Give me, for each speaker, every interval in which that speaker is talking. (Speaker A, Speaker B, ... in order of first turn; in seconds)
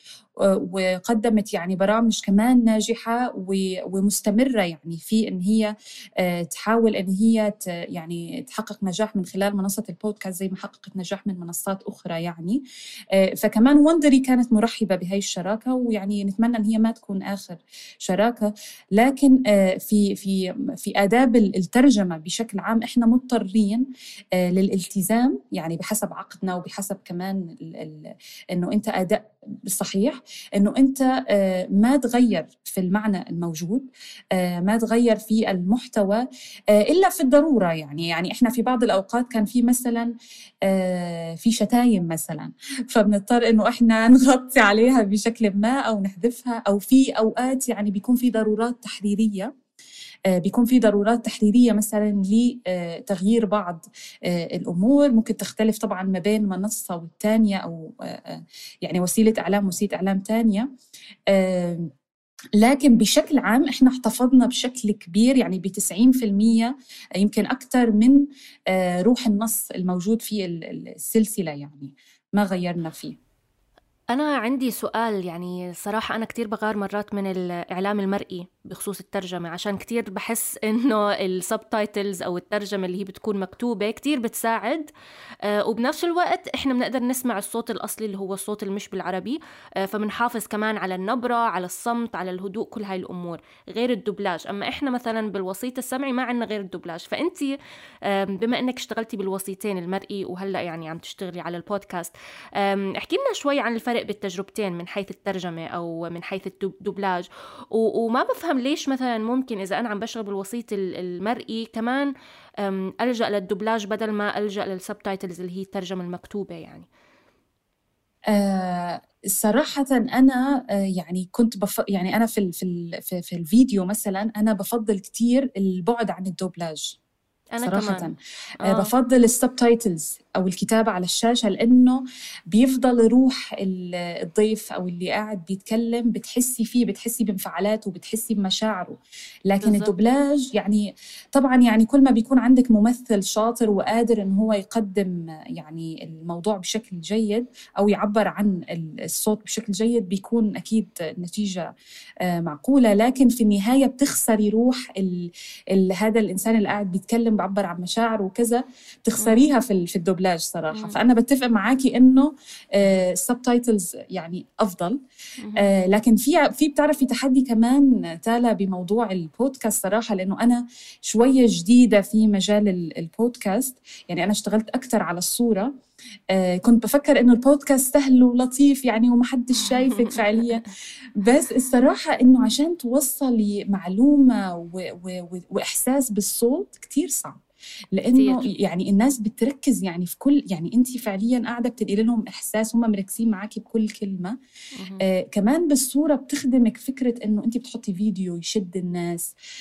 Speaker A: 0.4-12.6, 13.1-40.1, 40.6-49.5, 50.3-60.7, 61.3-61.9, 62.6-73.2, 118.3-127.0, 127.6-139.0, 139.5-151.7, 152.2-165.0, 165.6-175.7, 176.3-187.4, 187.9-194.4, 195.0-199.3
Speaker B: 74.1-84.9, 85.4-112.1, 112.6-116.9, 127.5-128.1, 139.6-139.9, 159.2-159.5, 165.4-165.7, 179.7-180.5, 188.1-188.5, 194.8-195.0